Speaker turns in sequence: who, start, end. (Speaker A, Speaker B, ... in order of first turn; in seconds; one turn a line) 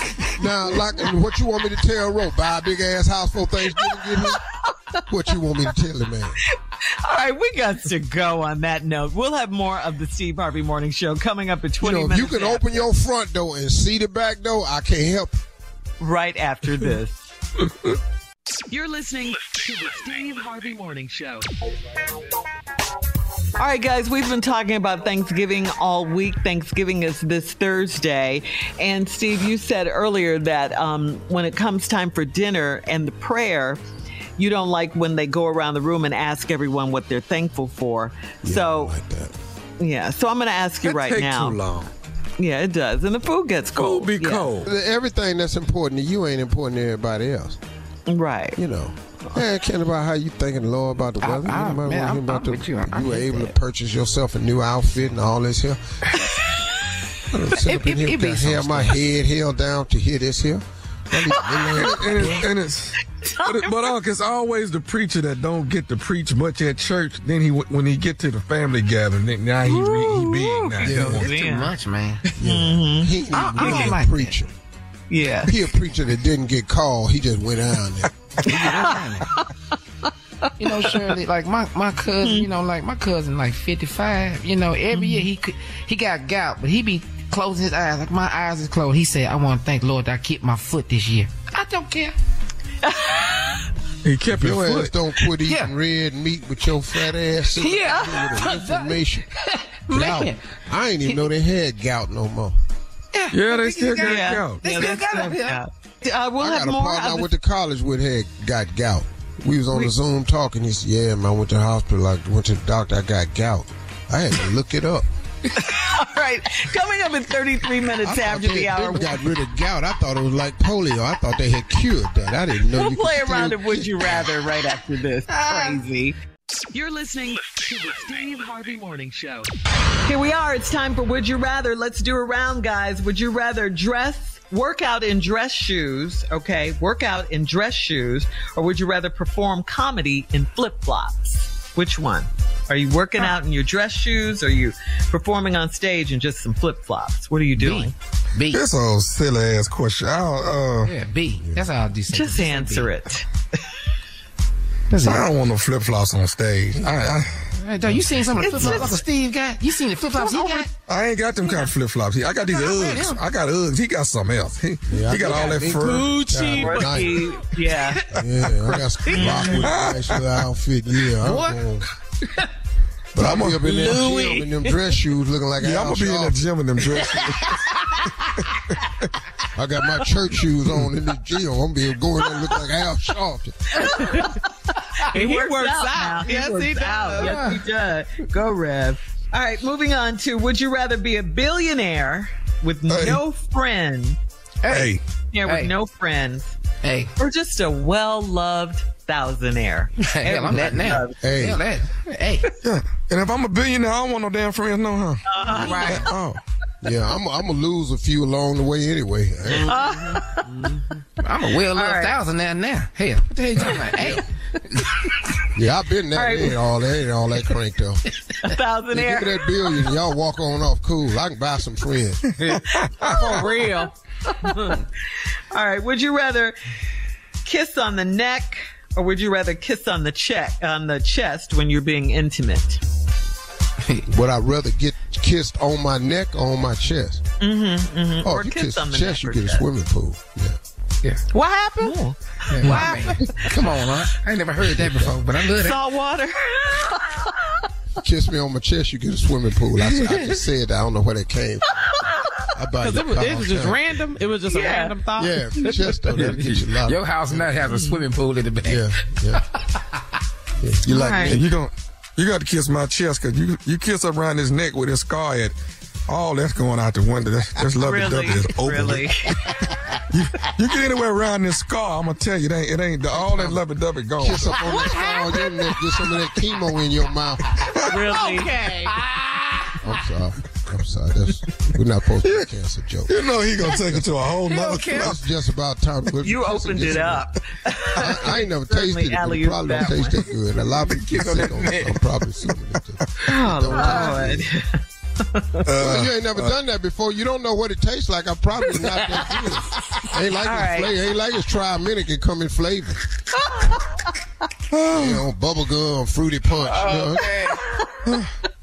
Speaker A: 0.3-4.4
Speaker B: 3.8-4.3
Speaker A: 5.1-6.4
Speaker B: 7.0-12.9
Speaker A: 11.8-15.4
Speaker B: 16.0-17.2
Speaker C: 18.7-21.5
Speaker B: 23.6-33.8
Speaker B: 34.4-38.9
Speaker A: 38.4-39.4
Speaker B: 39.8-41.6
Speaker D: 40.8-41.9
Speaker B: 42.4-44.5
Speaker D: 43.8-44.7
Speaker A: 44.6-47.6
Speaker B: 48.1-48.6
Speaker A: 48.5-55.8
Speaker E: 51.2-53.6
Speaker A: 57.5-62.5
Speaker E: 57.6-59.0
Speaker D: 61.7-71.3
Speaker B: 63.3-63.9
Speaker B: 69.6-71.8
Speaker A: 70.8-71.3
Speaker E: 70.9-72.2
Speaker B: 72.3-73.9
Speaker A: 72.4-74.5
Speaker E: 73.3-74.4
Speaker B: 75.1-75.6
Speaker A: 75.5-78.9
Speaker E: 78.4-79.3
Speaker B: 78.6-79.4
Speaker E: 80.6-92.1
Speaker B: 80.7-81.1
Speaker B: 84.9-85.3
Speaker B: 92.8-93.3
Speaker D: 94.0-94.9
Speaker A: 94.3-99.3
Speaker E: 95.4-95.7
Speaker E: 97.5-100.4
Speaker A: 99.9-102.6
Speaker E: 103.1-105.6
Speaker D: 103.3-104.8
Speaker B: 104.0-107.3
Speaker A: 106.4-115.1
Speaker B: 115.5-119.2
Speaker A: 118.0-124.2
Speaker B: 122.7-126.2
Speaker E: 125.3-125.8
Speaker C: 126.7-129.5
Speaker B: 130.1-147.9
Speaker E: 147.6-148.6
Speaker D: 148.5-150.9
Speaker E: 150.8-152.9
Speaker B: 152.1-153.3
Speaker E: 154.9-155.2
Speaker D: 155.0-157.5
Speaker E: 156.8-160.7
Speaker B: 158.3-159.0
Speaker A: 158.7-159.0
Speaker B: 160.2-160.6
Speaker D: 160.9-166.1
Speaker E: 162.4-163.2
Speaker A: 164.9-167.2
Speaker F: 165.7-166.8
Speaker B: 166.5-168.1
Speaker A: 168.1-171.8
Speaker B: 169.1-169.7
Speaker D: 169.5-170.3
Speaker E: 171.2-171.8
Speaker A: 173.1-176.4
Speaker D: 173.2-173.8
Speaker E: 173.7-174.8
Speaker D: 175.6-177.6
Speaker E: 176.8-177.3
Speaker A: 179.6-183.8
Speaker B: 183.8-184.4
Speaker B: 185.0-194.2
Speaker F: 185.1-187.4
Speaker E: 187.2-187.6
Speaker D: 192.9-193.2
Speaker E: 194.6-194.9
Speaker D: 194.7-195.0
Speaker B: 195.3-196.6
Speaker E: 195.4-195.7
Speaker E: 196.8-197.1
Speaker B: 197.2-201.2
Speaker E: 200.0-202.5
Speaker A: 201.2-201.6
Speaker D: 202.6-206.4
Speaker B: 205.3-206.1
Speaker E: 205.5-206.1
Speaker A: 206.8-209.8
Speaker B: 209.6-210.4
Speaker E: 211.2-214.2
Speaker B: 211.7-212.2
Speaker A: 215.6-218.0
Speaker B: 216.1-216.6
Speaker B: 218.4-219.8
Speaker A: 218.9-222.3
Speaker D: 222.7-223.1
Speaker A: 223.0-223.7
Speaker F: 223.2-223.9
Speaker B: 224.3-224.8
Speaker B: 225.5-226.6
Speaker B: 227.4-232.8
Speaker E: 233.8-234.1
Speaker A: 234.1-237.2
Speaker B: 237.4-239.7
Speaker A: 238.2-240.6
Speaker F: 241.3-241.9
Speaker B: 241.7-244.2
Speaker E: 242.5-245.8
Speaker F: 242.7-243.0
Speaker A: 244.8-245.2
Speaker B: 245.4-247.3
Speaker A: 248.0-251.7
Speaker E: 249.8-250.4
Speaker B: 251.8-252.5
Speaker A: 252.6-254.0
Speaker F: 252.8-256.0
Speaker B: 254.5-255.0
Speaker A: 255.1-257.7
Speaker E: 256.1-259.4
Speaker B: 257.7-258.0
Speaker A: 258.6-259.4
Speaker A: 260.6-261.4
Speaker B: 260.9-261.4
Speaker D: 261.1-265.5
Speaker D: 266.1-269.1
Speaker B: 267.7-269.4
Speaker D: 270.1-274.8
Speaker A: 274.2-277.7
Speaker E: 274.5-276.1
Speaker B: 277.9-278.7
Speaker F: 278.1-278.9
Speaker E: 278.1-280.0
Speaker A: 279.8-283.2
Speaker D: 283.1-285.2
Speaker E: 283.6-285.1
Speaker A: 284.9-287.3
Speaker B: 286.2-290.3
Speaker A: 287.9-294.4
Speaker E: 290.8-292.0
Speaker B: 293.2-295.7
Speaker D: 295.7-296.6
Speaker A: 295.8-303.0
Speaker E: 298.9-299.4
Speaker B: 300.3-301.0
Speaker D: 304.7-305.2
Speaker A: 304.9-307.3
Speaker E: 306.6-307.6